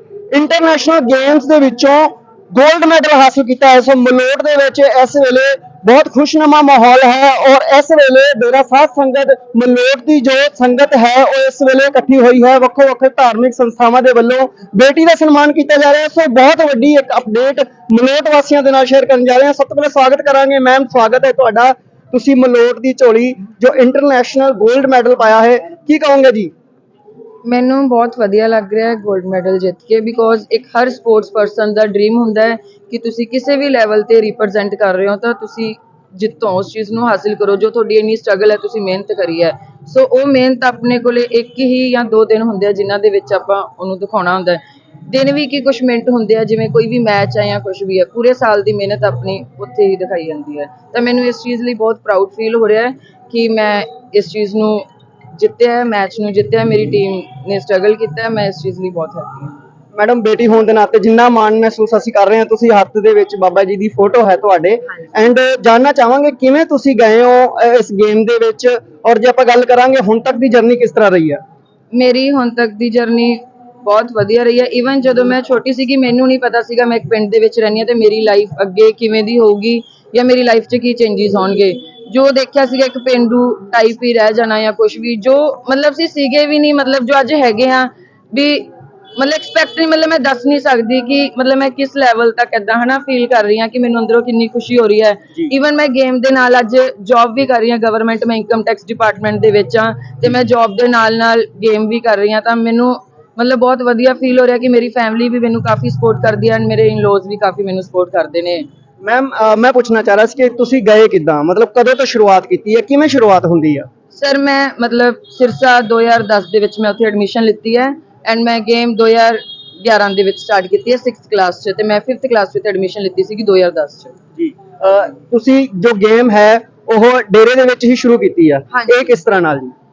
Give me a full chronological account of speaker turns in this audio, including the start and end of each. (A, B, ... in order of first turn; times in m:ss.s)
0:00.3-0:26.5 A
0:27.4-0:59.6 B
0:59.9-1:11.4 A
1:11.9-1:48.7 B
1:49.0-1:53.9 A
1:54.1-2:04.1 B
2:04.4-2:09.7 A
2:08.7-2:09.0 B